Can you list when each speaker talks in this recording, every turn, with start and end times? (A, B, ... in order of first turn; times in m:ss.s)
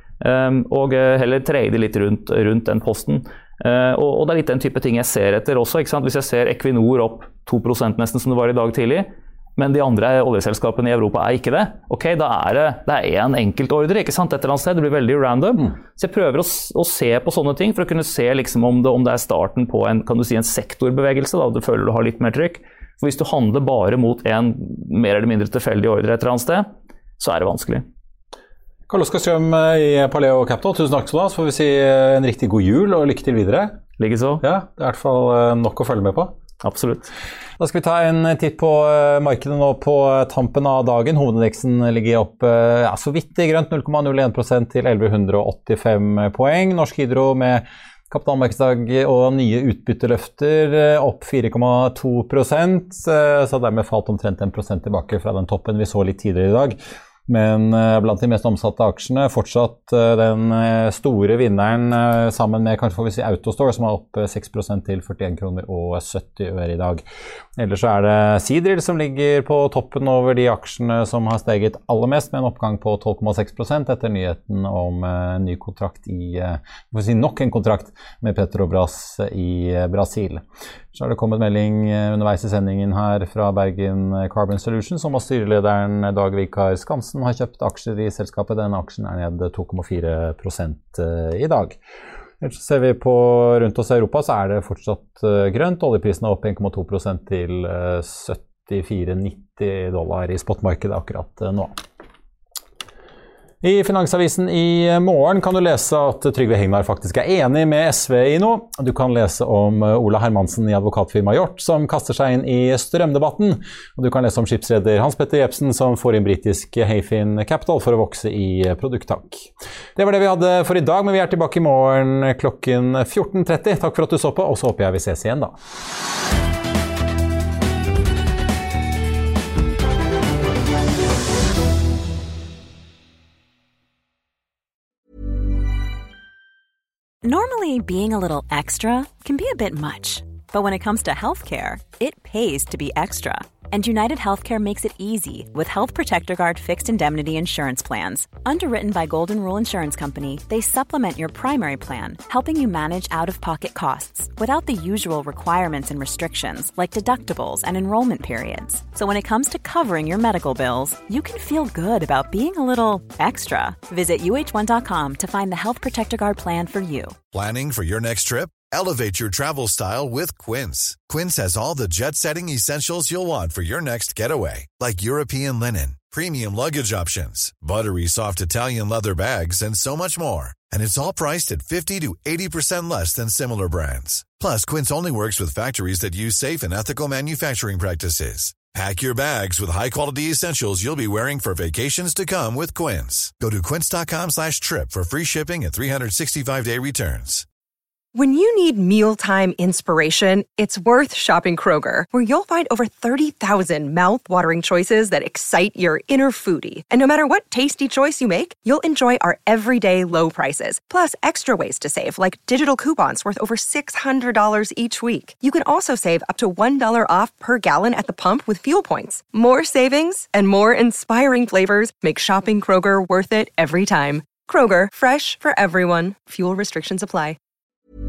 0:00.2-0:26.7 A
0:27.2-0:27.8 A
0:28.9-0:33.8 B
0:34.0-0:34.4 A
0:34.4-0:36.3 B
0:36.6-0:37.1 A
0:37.6-1:07.0 B
1:07.6-1:31.8 B
1:32.4-1:41.8 B
1:43.6-2:05.6 B
2:17.2-2:47.2 C
2:47.3-3:17.4 D
3:18.1-3:47.4 E